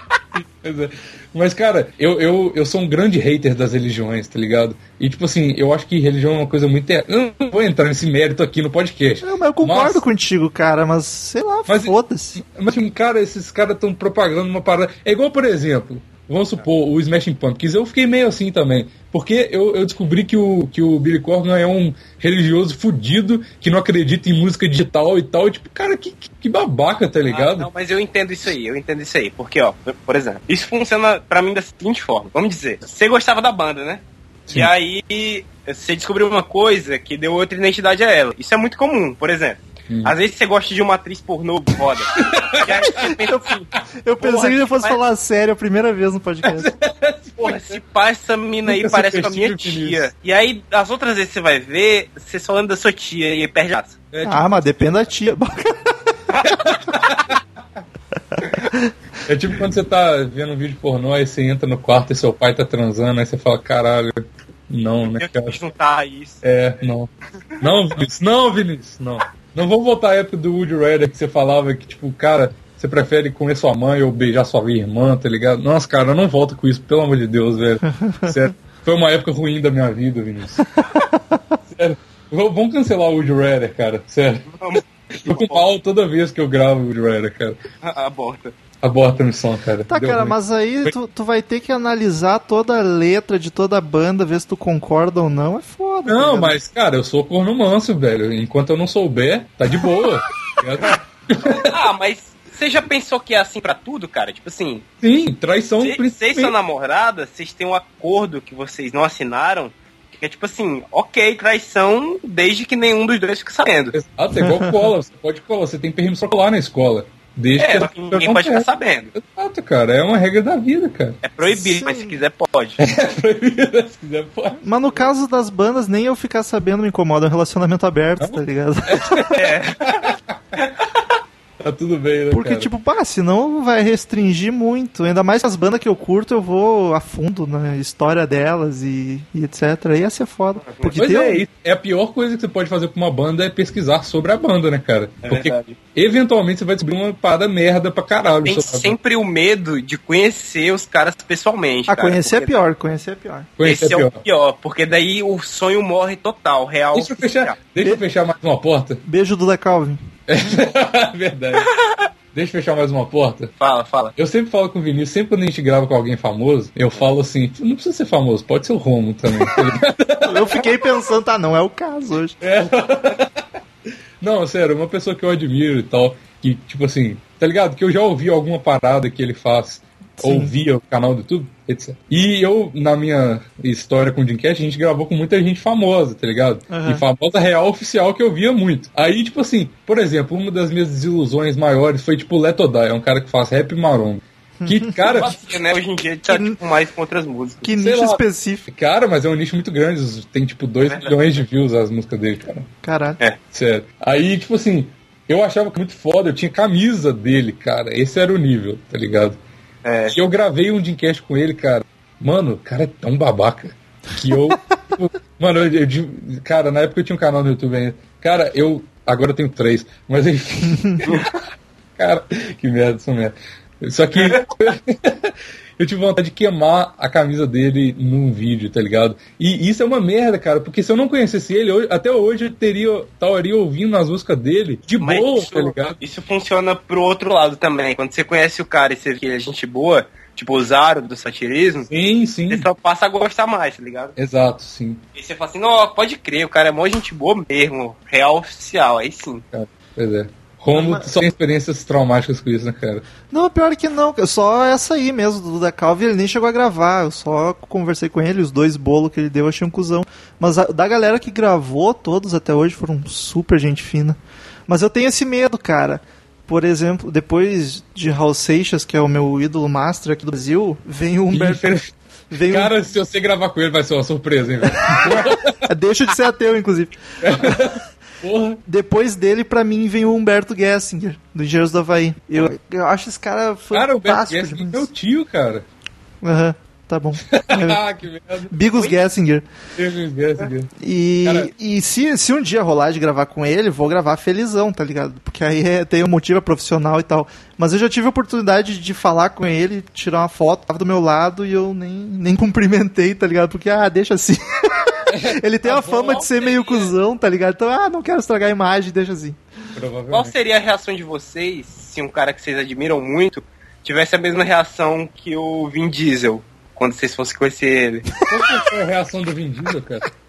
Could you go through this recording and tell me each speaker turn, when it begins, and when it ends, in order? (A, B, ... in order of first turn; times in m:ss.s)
0:00.3-0:10.0 A
0:09.2-0:12.4 B
0:11.7-0:27.7 A
0:27.3-0:43.7 C
0:39.9-0:40.1 A
0:42.2-0:42.8 A
0:42.9-0:46.7 B
0:44.2-0:45.0 C
0:46.4-0:47.8 A
0:47.4-0:54.0 C
0:48.6-0:50.1 A
0:54.1-0:54.9 A
0:54.2-0:56.4 B
0:56.3-0:57.2 C
0:56.5-0:57.4 A
0:58.4-0:58.9 B
0:59.2-1:05.6 A
1:05.1-1:06.4 C
1:06.4-1:20.7 A
1:07.6-1:07.8 C
1:21.7-1:24.5 A
1:24.5-1:25.6 C
1:25.2-1:27.6 A
1:27.8-1:28.5 C
1:28.8-1:30.9 A
1:29.9-1:36.6 B
1:36.1-1:41.7 A
1:41.4-1:44.8 C
1:45.0-1:46.6 A
1:45.8-1:53.9 C
1:53.9-2:01.2 A
1:54.3-1:54.8 B
1:57.6-1:59.1 C
2:01.2-2:02.8 C
2:01.4-2:02.2 B
2:02.8-2:04.6 A
2:04.6-2:09.2 B
2:08.2-2:10.3 A
2:09.3-2:10.0 C
2:10.6-2:10.8 C
2:11.6-2:12.7 A
2:12.3-2:21.5 B
2:20.6-2:21.0 C
2:20.9-2:28.9 A
2:25.2-2:25.8 C
2:28.4-2:32.6 C
2:31.9-2:33.5 B
2:33.6-2:34.2 A
2:33.6-2:37.6 C
2:36.9-2:39.0 A
2:39.0-2:40.0 B
2:40.3-2:41.7 A
2:42.3-2:43.5 A
2:43.6-2:44.1 C
2:44.2-2:50.4 A
2:50.2-2:52.4 B
2:52.4-2:53.4 A
2:54.2-3:15.3 A
3:00.2-3:00.5 B
3:06.7-3:07.0 B
3:14.6-3:15.0 B
3:15.0-3:17.7 C
3:16.2-3:16.6 B
3:17.6-3:18.7 B
3:17.8-3:22.7 A
3:20.8-3:21.4 C
3:22.8-3:23.2 B
3:23.5-3:29.4 A
3:29.8-3:30.2 C
3:30.1-3:41.2 A
3:42.0-3:56.0 A
3:55.0-4:01.9 C
4:01.8-4:02.7 A
4:02.5-4:04.2 C
4:04.2-4:05.0 A
4:05.1-4:09.4 C
4:09.5-4:13.0 A
4:10.7-4:11.1 B
4:13.3-4:31.7 B
4:31.3-4:35.6 A
4:32.3-4:32.7 B
4:34.9-4:37.8 B
4:37.2-4:38.6 A
4:38.6-4:44.9 B
4:43.7-4:45.6 A
4:46.2-4:47.8 B
4:47.3-4:49.0 A
4:48.5-4:49.5 B
4:49.8-4:50.7 A
4:50.7-5:09.4 B
4:51.2-4:51.5 A
5:05.1-5:06.0 A
5:05.7-5:06.9 C
5:09.7-5:10.3 A
5:10.1-5:18.1 C
5:18.3-5:20.1 A